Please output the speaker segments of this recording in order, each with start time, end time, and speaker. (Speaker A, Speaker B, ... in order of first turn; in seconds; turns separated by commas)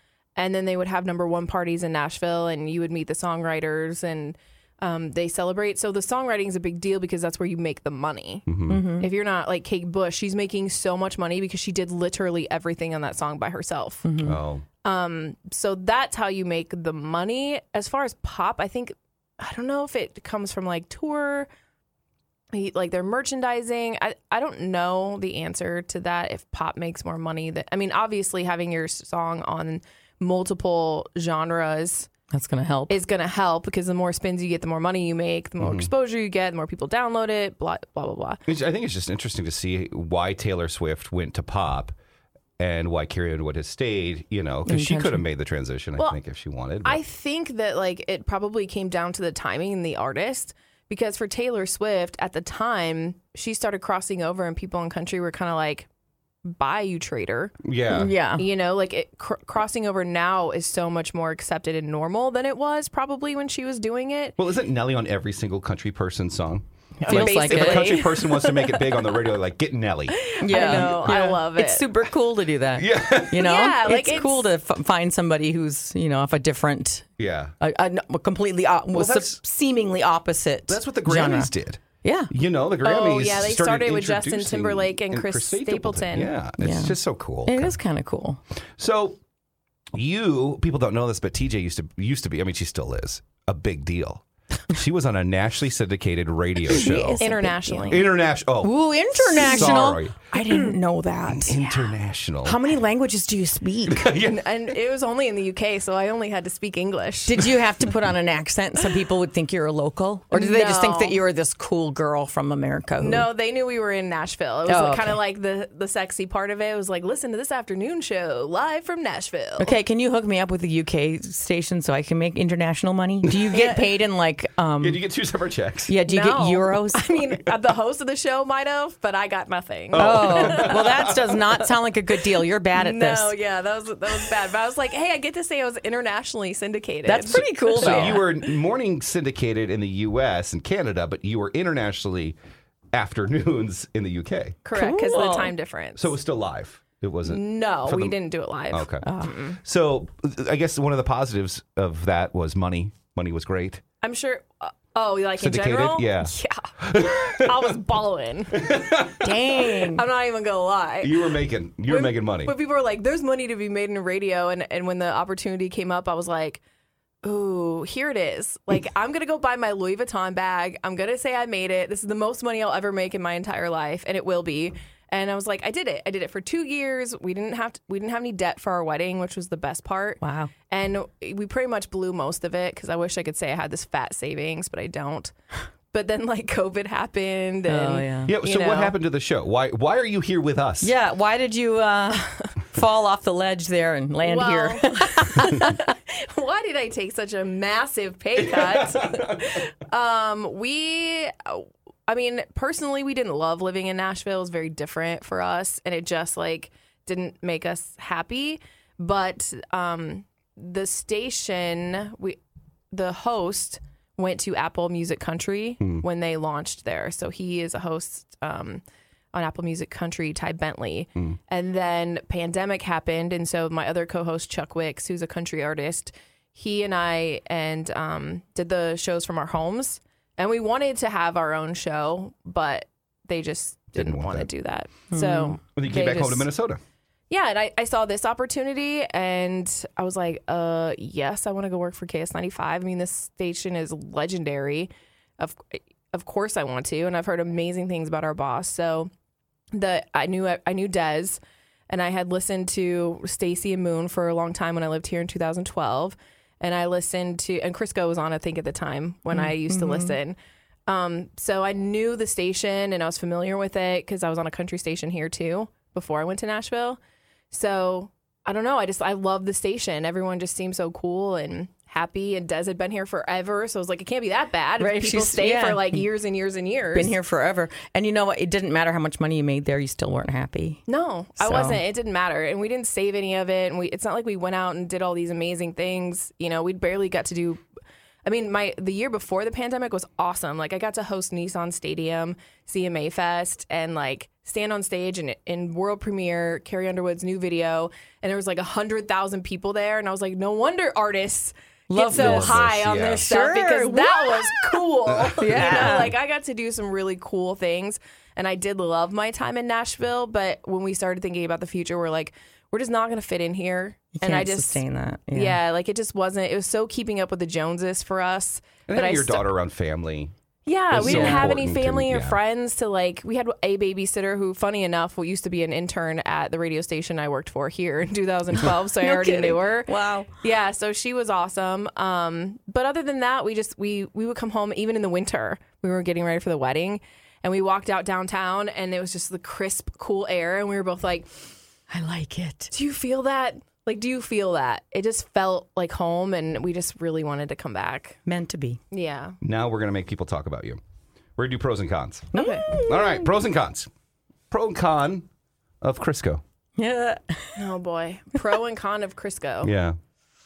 Speaker A: 0.4-14.1, Speaker B: 8.5-8.8, Speaker C: 8.7-9.1, Speaker C: 14.0-14.4, Speaker B: 14.2-14.7, Speaker A: 14.8-21.5, Speaker A: 22.5-32.1, Speaker C: 32.3-33.0, Speaker A: 32.9-38.4, Speaker B: 35.6-35.9, Speaker B: 38.5-42.0, Speaker B: 42.6-47.0, Speaker C: 44.7-45.2, Speaker A: 46.8-55.9, Speaker A: 56.4-57.6, Speaker B: 57.6-58.1, Speaker C: 57.9-58.5, Speaker A: 58.4-64.4, Speaker B: 64.4-71.3, Speaker C: 67.0-68.2, Speaker A: 67.0-69.3, Speaker A: 70.1-71.9, Speaker C: 70.4-77.1, Speaker B: 72.8-73.5, Speaker A: 73.3-74.5, Speaker B: 77.2-77.5, Speaker C: 77.6-82.3, Speaker B: 78.9-79.4, Speaker B: 80.7-87.7, Speaker A: 82.8-86.3, Speaker C: 86.6-88.4, Speaker B: 88.8-89.2, Speaker B: 89.9-97.2, Speaker C: 96.7-98.1, Speaker A: 97.2-98.1, Speaker B: 97.9-100.3, Speaker C: 98.6-101.8, Speaker B: 101.3-102.6, Speaker C: 102.5-104.1, Speaker B: 103.9-104.5, Speaker A: 104.2-107.4, Speaker C: 107.3-113.3, Speaker A: 110.3-111.2, Speaker A: 113.0-119.8, Speaker C: 114.7-115.2, Speaker C: 119.6-125.0, Speaker A: 123.5-123.8, Speaker B: 124.8-126.0, Speaker C: 125.9-127.2, Speaker A: 126.1-131.2, Speaker B: 129.9-131.2, Speaker C: 130.0-133.3, Speaker A: 132.8-138.2, Speaker C: 137.1-138.2, Speaker B: 137.8-142.4, Speaker B: 142.9-144.6, Speaker A: 144.6-146.1, Speaker C: 144.7-145.5, Speaker B: 146.0-148.2, Speaker A: 147.2-149.6, Speaker B: 148.7-153.8, Speaker C: 149.0-149.3, Speaker A: 154.0-158.8, Speaker B: 155.4-157.7, Speaker B: 158.5-159.3, Speaker C: 159.2-160.1, Speaker A: 159.7-161.3, Speaker B: 161.0-162.5, Speaker A: 161.9-166.6, Speaker A: 167.2-185.3, Speaker C: 180.2-180.5, Speaker A: 185.9-188.9, Speaker C: 187.7-188.3, Speaker B: 188.3-190.9, Speaker C: 190.8-195.8, Speaker A: 194.2-212.4, Speaker B: 198.4-199.6, Speaker A: 212.9-236.5, Speaker B: 233.9-234.5, Speaker C: 235.1-235.6, Speaker B: 235.8-236.8, Speaker A: 237.3-249.1, Speaker A: 249.7-267.0, Speaker C: 259.3-260.2, Speaker A: 267.5-277.1, Speaker C: 274.8-276.1, Speaker C: 276.9-280.8, Speaker A: 280.9-287.6, Speaker C: 281.4-281.8, Speaker A: 288.2-319.5, Speaker C: 301.9-304.8, Speaker B: 302.1-303.3, Speaker B: 305.1-306.1, Speaker C: 305.4-306.1, Speaker C: 314.2-315.6, Speaker B: 318.9-320.3, Speaker A: 320.7-341.3, Speaker B: 320.9-322.4, Speaker C: 321.0-321.6, Speaker C: 329.0-330.4, Speaker C: 341.9-342.7, Speaker A: 342.7-348.2, Speaker C: 348.3-348.8, Speaker A: 348.9-349.4, Speaker B: 349.4-350.8, Speaker B: 351.4-353.9, Speaker C: 352.3-353.3, Speaker A: 352.4-352.7, Speaker B: 354.5-355.3, Speaker B: 355.8-356.4, Speaker C: 356.8-357.7, Speaker A: 357.6-359.7, Speaker B: 359.6-360.0